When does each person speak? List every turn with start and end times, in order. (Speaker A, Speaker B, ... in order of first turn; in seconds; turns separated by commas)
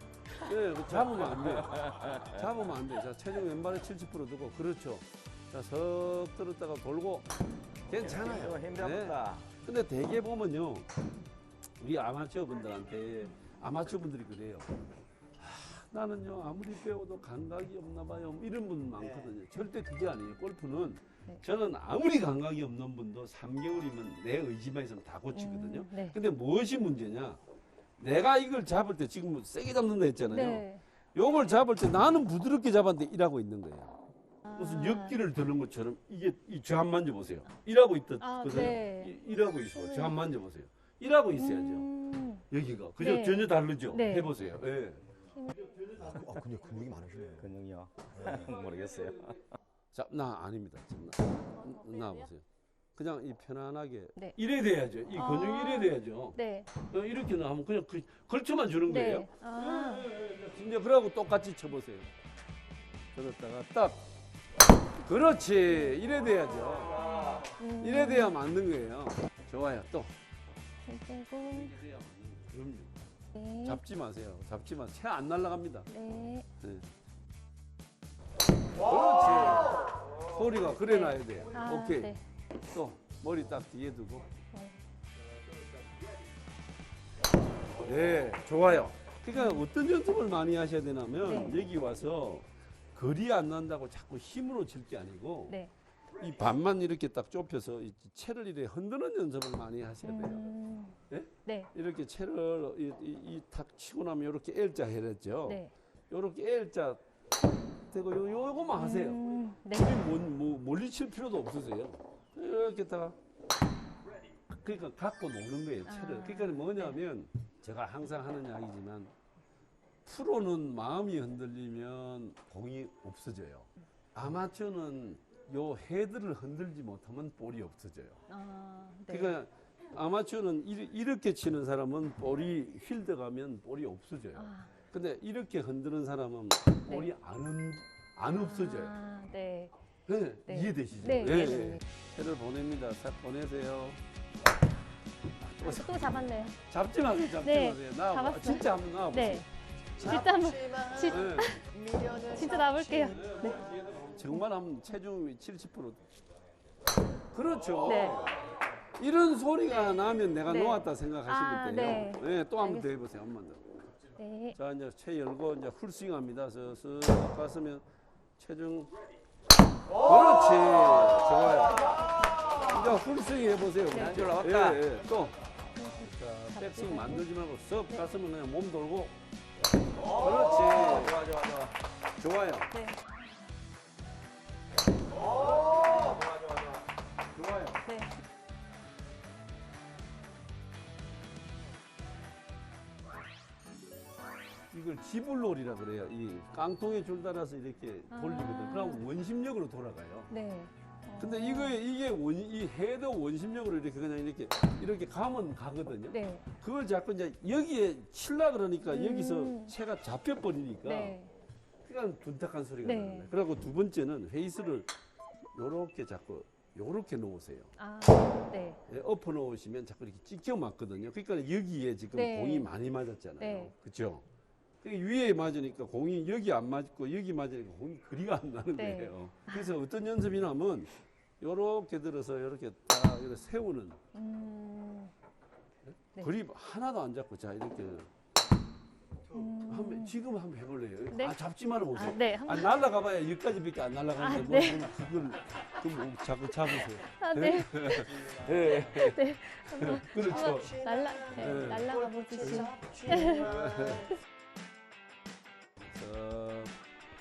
Speaker A: 0.4-7.3, Speaker B: 1.3-2.4, Speaker A: 7.9-10.9, Speaker B: 7.9-9.4, Speaker A: 11.8-14.7, Speaker A: 15.4-27.4, Speaker C: 19.0-19.3, Speaker D: 25.3-26.1, Speaker A: 28.0-30.6, Speaker D: 30.3-30.8, Speaker A: 31.1-34.0, Speaker D: 34.4-35.1, Speaker A: 34.5-41.9, Speaker D: 38.2-39.1, Speaker D: 39.7-40.1, Speaker D: 41.4-42.4, Speaker A: 42.5-45.0, Speaker D: 43.0-44.3, Speaker D: 45.3-45.6, Speaker C: 45.9-47.5, Speaker B: 47.4-49.5, Speaker A: 49.9-62.1, Speaker D: 55.1-56.7, Speaker D: 58.9-60.1, Speaker A: 63.1-64.1, Speaker A: 65.0-70.1, Speaker D: 67.5-68.4, Speaker D: 70.8-71.7, Speaker A: 71.5-73.0, Speaker D: 73.3-73.8, Speaker A: 73.6-75.9, Speaker D: 75.9-76.5, Speaker A: 76.6-76.8, Speaker A: 78.8-82.1, Speaker D: 80.8-82.2, Speaker A: 82.7-84.3, Speaker D: 84.5-84.8, Speaker A: 87.8-95.6, Speaker D: 89.3-89.6, Speaker D: 91.2-91.6, Speaker A: 96.2-100.5, Speaker D: 100.0-101.7, Speaker A: 101.1-107.0, Speaker D: 105.5-105.7, Speaker A: 107.9-109.2, Speaker D: 108.8-110.0, Speaker A: 109.7-113.2, Speaker A: 114.5-119.1, Speaker D: 115.8-117.0, Speaker A: 120.0-128.2, Speaker D: 128.3-129.3, Speaker A: 129.1-138.9, Speaker D: 134.3-134.7, Speaker D: 138.3-139.7, Speaker A: 140.1-144.0, Speaker D: 140.5-141.8, Speaker A: 145.4-146.0, Speaker D: 145.6-146.6, Speaker A: 146.7-149.4, Speaker D: 147.2-151.6, Speaker C: 150.0-153.2, Speaker A: 151.0-151.6, Speaker D: 152.3-153.6, Speaker A: 153.1-156.0, Speaker A: 157.3-158.4, Speaker D: 157.8-158.3, Speaker A: 159.0-163.7, Speaker D: 160.5-162.8, Speaker D: 164.2-164.6, Speaker A: 164.5-167.8, Speaker A: 168.4-168.9, Speaker A: 169.9-175.4, Speaker D: 173.9-174.2, Speaker B: 173.9-174.8, Speaker D: 175.8-177.2, Speaker A: 176.0-179.2, Speaker A: 180.0-181.2, Speaker B: 180.8-181.7, Speaker A: 182.2-182.7, Speaker D: 182.7-183.0, Speaker D: 187.8-188.1, Speaker A: 194.7-200.3, Speaker D: 198.1-199.0, Speaker D: 200.3-201.8, Speaker A: 201.2-211.2, Speaker D: 206.1-206.4, Speaker D: 208.9-209.7, Speaker D: 210.8-211.3, Speaker A: 211.8-214.9, Speaker D: 212.8-213.3, Speaker A: 215.5-217.7, Speaker D: 217.8-218.8, Speaker A: 218.9-224.2, Speaker D: 222.1-222.7, Speaker D: 223.4-223.7, Speaker A: 224.8-234.0, Speaker D: 228.8-229.7, Speaker D: 234.1-235.1, Speaker A: 236.2-238.1, Speaker D: 239.3-240.1, Speaker A: 239.7-250.8, Speaker D: 241.1-241.4, Speaker D: 241.9-242.7, Speaker D: 244.2-244.9, Speaker D: 246.8-254.0, Speaker C: 250.2-254.1, Speaker A: 251.3-251.9, Speaker A: 252.4-254.1, Speaker A: 255.8-256.7